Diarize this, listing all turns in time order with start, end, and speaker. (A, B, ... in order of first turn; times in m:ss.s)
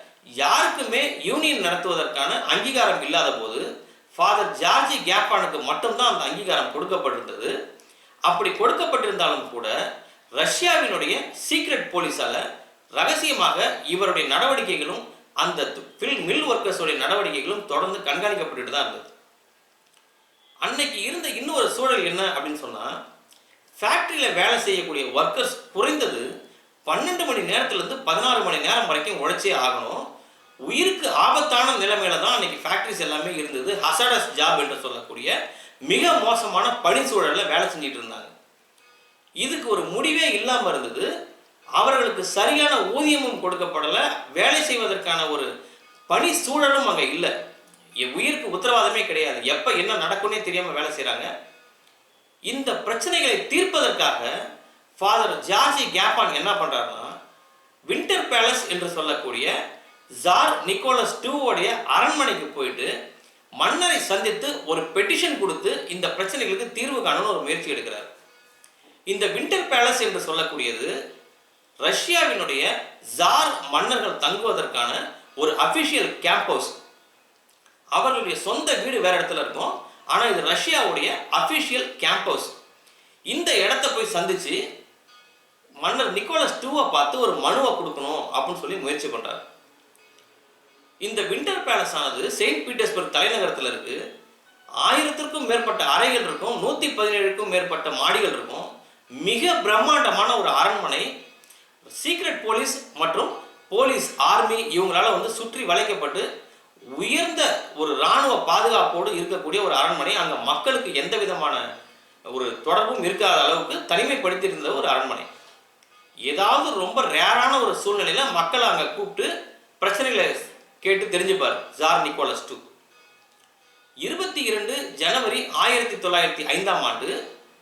0:00.4-0:03.6 A
0:04.2-0:07.5 A
0:08.3-0:09.7 A
0:10.4-0:12.4 A
0:13.0-0:19.1 A
0:20.6-0:22.9 A
0:23.8-0:26.2 A
0:26.8-0:30.0 A
0:30.7-0:35.3 A
0:35.9-0:38.3 A
0:39.4-0:41.0 A
0:41.8-0:45.5 A
0:46.1-0:47.3 A
0:48.0-0:51.3 A
0:52.5-0:54.3 A
0:55.0-0:57.1 A
0:57.9-0:59.5 A
1:00.2-1:02.9 A
1:03.6-1:08.1 A
1:09.1-1:10.9 A
1:11.8-1:16.8 A
1:17.9-1:22.5 A
1:23.3-1:24.6 A
1:25.8-1:29.4 A
1:31.0-1:34.0 A
1:34.8-1:38.7 A
1:39.2-1:41.0 A
1:42.0-1:46.2 A
1:47.0-1:51.6 A
1:52.3-1:55.3 A
1:56.3-1:59.3 A
1:59.8-2:02.6 A
2:04.0-2:07.1 A